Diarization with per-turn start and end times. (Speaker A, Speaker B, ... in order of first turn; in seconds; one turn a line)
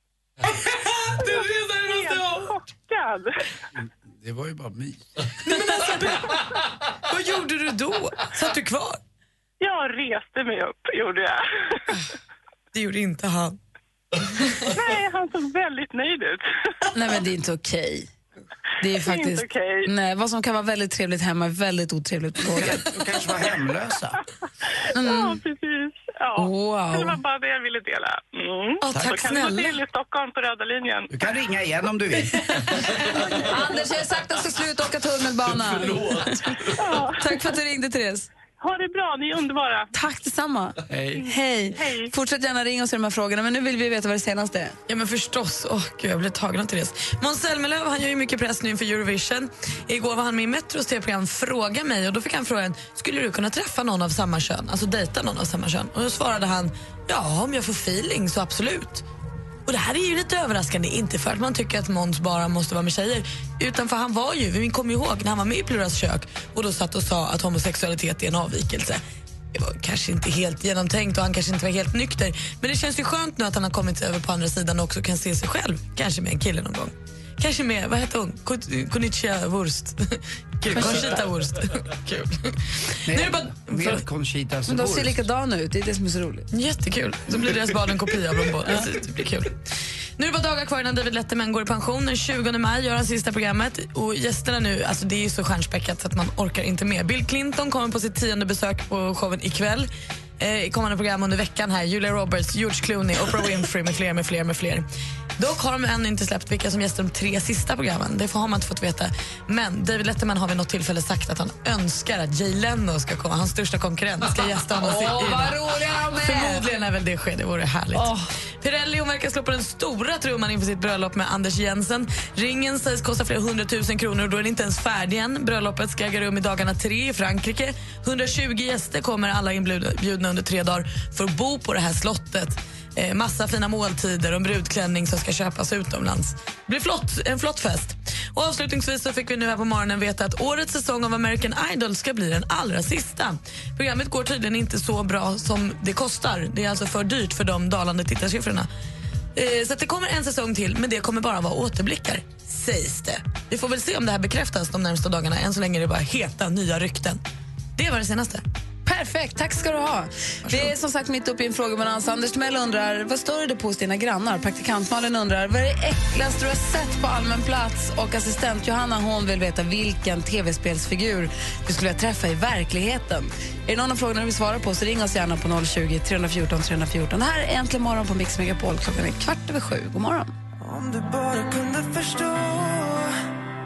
Speaker A: 1.1-3.4
Speaker B: 1.3-2.5
Speaker C: 3.8-5.1
Speaker B: 5.4-6.5
Speaker B: 7.1-9.0
Speaker A: 9.6-11.8
Speaker B: 12.7-13.6
Speaker B: 14.4-14.7
Speaker A: 14.7-16.5
Speaker D: 16.9-18.1
Speaker D: 18.8-22.9
Speaker A: 19.0-19.9
Speaker C: 22.5-24.2
Speaker A: 24.9-31.1
Speaker D: 24.9-25.4
Speaker D: 26.4-27.2
Speaker B: 28.8-29.8
Speaker C: 31.1-32.4
Speaker D: 32.4-38.3
Speaker A: 36.8-37.2
Speaker A: 38.6-39.9
Speaker D: 39.9-44.8
Speaker C: 40.9-41.2
Speaker A: 41.1-42.1
Speaker B: 44.9-59.0
Speaker B: 59.7-69.0
Speaker B: 69.5-84.0
Speaker D: 80.8-81.1
Speaker C: 83.1-85.2
Speaker D: 84.7-86.5
Speaker B: 86.5-89.6
Speaker B: 90.2-104.8
Speaker B: 105.4-148.7
Speaker D: 114.8-116.7
Speaker D: 117.9-118.3
Speaker B: 149.4-157.2
Speaker B: 157.8-158.4
Speaker D: 158.9-180.3
Speaker B: 160.5-160.7
Speaker E: 180.6-183.1